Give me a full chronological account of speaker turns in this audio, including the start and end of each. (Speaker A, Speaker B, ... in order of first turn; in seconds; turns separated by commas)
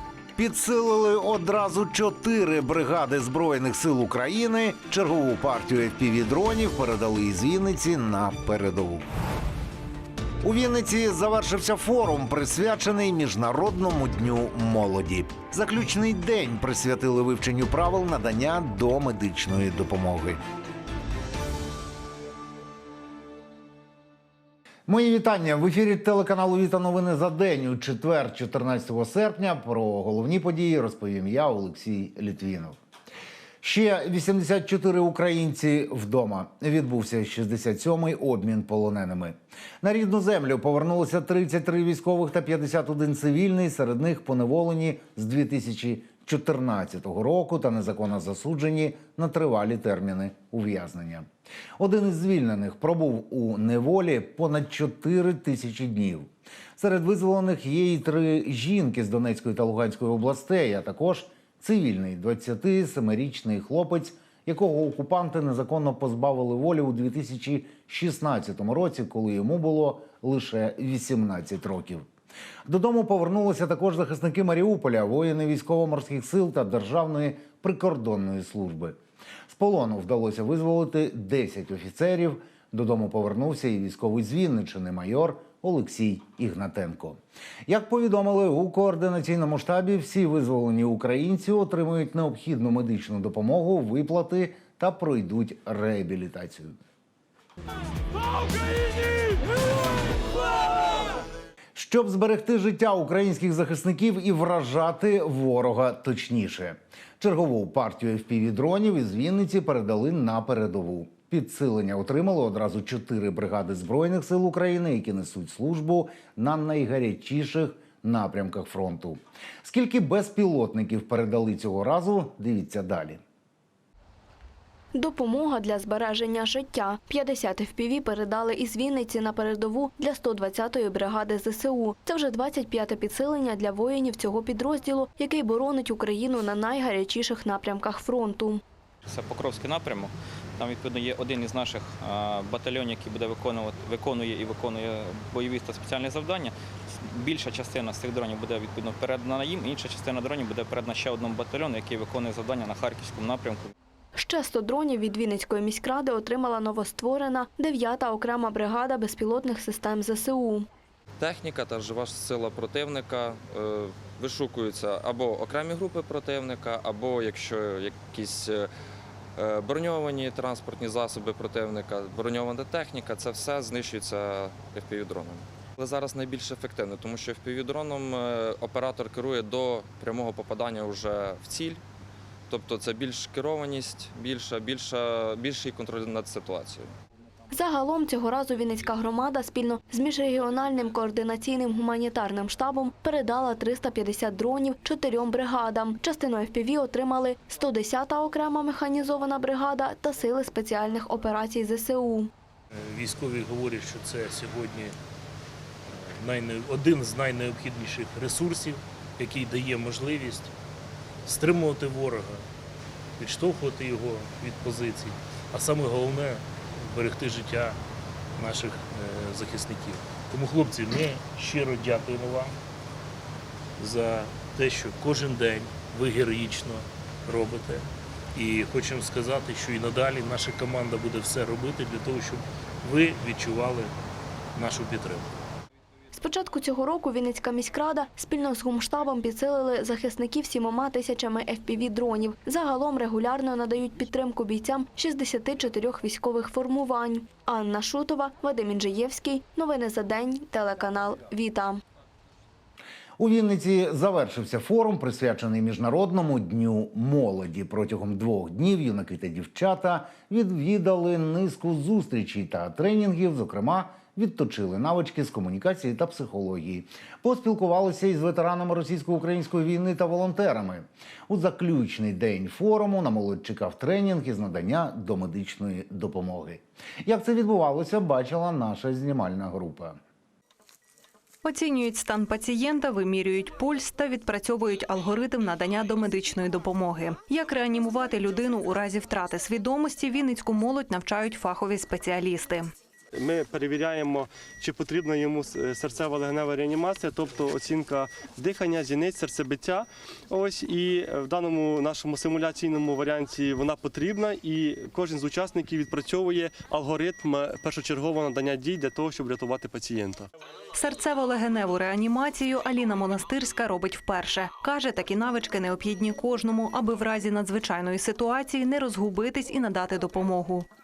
Speaker A: 0.4-9.1, Speaker A: 10.4-20.4, Speaker A: 24.9-32.8, Speaker A: 33.6-51.3, Speaker A: 51.8-72.1, Speaker A: 72.7-96.8, Speaker A: 101.7-123.2, Speaker B: 124.9-138.6, Speaker C: 139.1-153.7, Speaker B: 154.2-160.7, Speaker D: 161.2-168.7, Speaker D: 169.3-181.8, Speaker D: 182.5-186.9, Speaker B: 187.5-202.3, Speaker E: 202.7-204.9, Speaker E: 205.9-210.5, Speaker E: 211.2-212.4, Speaker E: 213.2-217.8, Speaker E: 218.4-222.6, Speaker E: 223.8-233.9, Speaker E: 234.6-235.3, Speaker B: 236.1-251.8, Speaker A: 253.2-280.0, Speaker F: 281.4-292.7, Speaker G: 293.1-310.3, Speaker F: 310.7-320.7